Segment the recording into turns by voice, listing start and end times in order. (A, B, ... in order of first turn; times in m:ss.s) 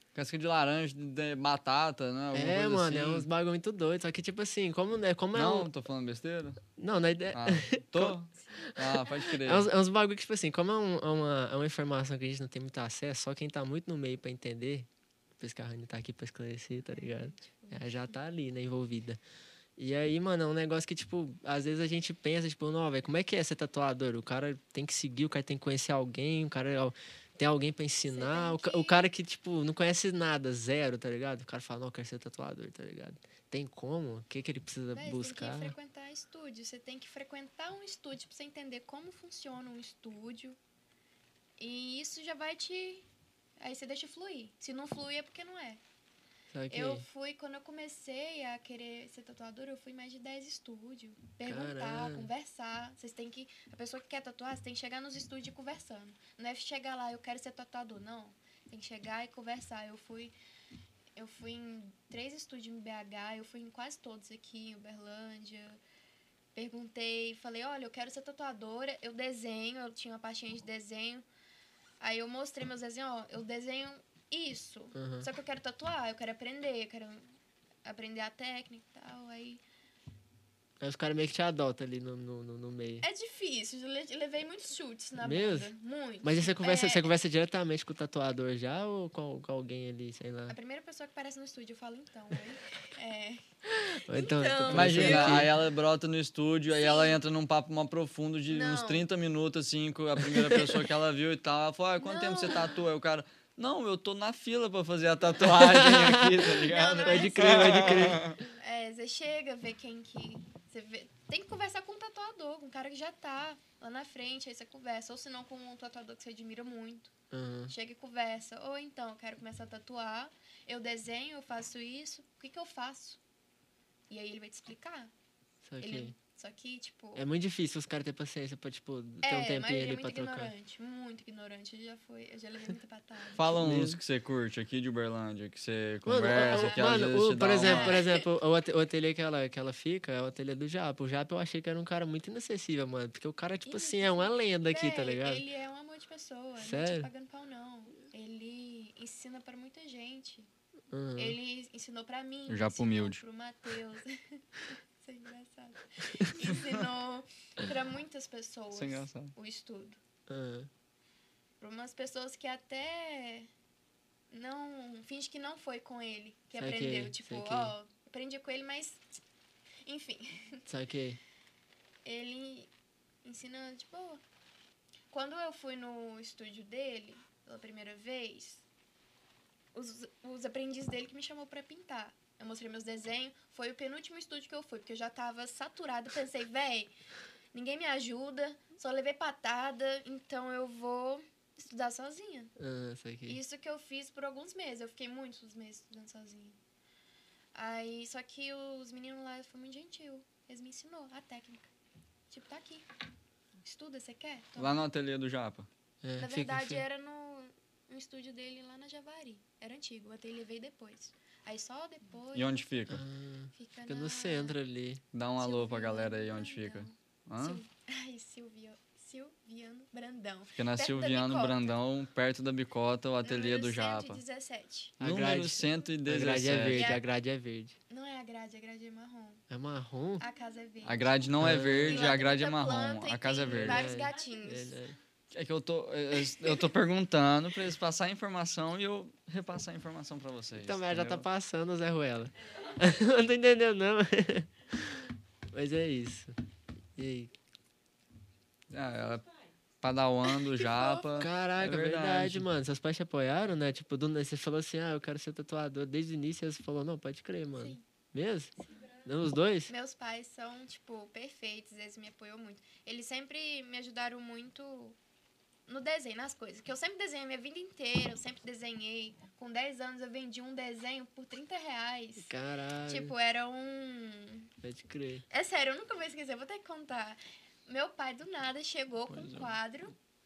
0:00.2-0:03.3 A
0:02.3-0:05.7 B
0:05.3-0:06.6 A
0:06.8-0:19.2 B
0:07.3-0:09.7 A
0:16.9-0:17.9 C
0:19.8-0:35.8 B
0:28.1-0:29.0 C
0:34.9-0:40.6 C
0:41.6-0:43.1 C
0:43.6-0:45.8 C
0:46.5-0:47.0 B
0:46.7-1:00.4 C
0:51.5-0:52.3 B
1:01.2-1:05.8 C
1:06.6-1:11.3 C
1:12.0-1:17.3 C
1:15.0-1:15.3 B
1:17.8-1:19.6 C
1:20.8-1:23.0 B
1:23.0-1:27.1 C
1:25.2-1:25.7 B
1:26.2-1:30.6 B
1:30.5-1:35.5 C
1:34.0-1:35.6 B
1:34.7-1:48.4 A
1:36.8-1:37.2 C
1:38.5-1:39.1 C
1:40.2-1:40.8 B
1:42.0-1:42.8 C
1:45.4-1:48.2 B
1:46.7-1:57.1 C
1:57.3-1:57.7 B
1:57.7-2:03.2 C
2:04.1-2:05.1 C
2:05.6-2:06.2 B
2:05.8-2:07.3 C
2:07.2-2:10.5 B
2:09.2-2:13.6 C
2:13.4-2:18.0 A
2:13.5-2:14.0 B
2:16.0-2:25.4 B
2:16.3-2:17.0 C
2:17.6-2:18.3 C
2:23.6-2:30.5 C
2:26.6-2:27.1 B
2:30.9-2:31.4 B
2:31.2-2:40.0 C
2:32.5-2:33.2 A
2:38.7-2:39.3 A
2:40.3-2:40.7 B
2:41.6-2:43.5 C
2:44.3-2:49.2 C
2:46.5-2:47.7 B
2:49.8-2:50.7 C
2:50.7-2:51.2 B
2:52.0-2:52.7 C
2:53.2-2:54.2 C
2:55.1-2:58.6 C
2:59.7-3:06.9 C
3:07.5-3:12.5 C
3:12.6-3:13.4 B
3:13.3-3:16.6 C
3:17.5-3:21.7 C
3:22.3-3:22.9 C
3:23.6-3:24.8 C
3:24.6-3:25.7 A
3:26.0-3:26.8 B
3:26.2-3:32.7 C
3:32.3-3:33.0 A
3:32.9-3:35.0 B
3:33.6-3:34.6 C
3:35.1-3:37.6 A
3:35.4-3:41.8 C
3:40.6-3:44.2 A
3:43.2-3:45.0 C
3:45.0-3:47.8 B
3:45.0-3:47.0 A
3:46.8-3:47.1 C
3:47.9-3:49.4 C
3:49.5-3:50.2 B
3:50.2-3:54.8 C
3:50.8-3:53.9 A
3:51.4-3:52.1 B
3:53.5-3:55.0 B
3:55.3-4:01.3 A
4:00.6-4:06.4 B
4:07.0-4:07.3 B
4:08.7-4:09.3 A
4:09.8-4:12.5 A
4:11.1-4:18.5 B
4:17.6-4:17.8 C
4:19.0-4:19.7 B
4:19.7-4:25.0 C
4:25.7-4:32.3 C
4:32.3-4:33.1 B
4:32.9-4:34.5 C
4:34.6-4:35.2 B
4:35.3-4:40.0 C
4:39.1-4:39.5 A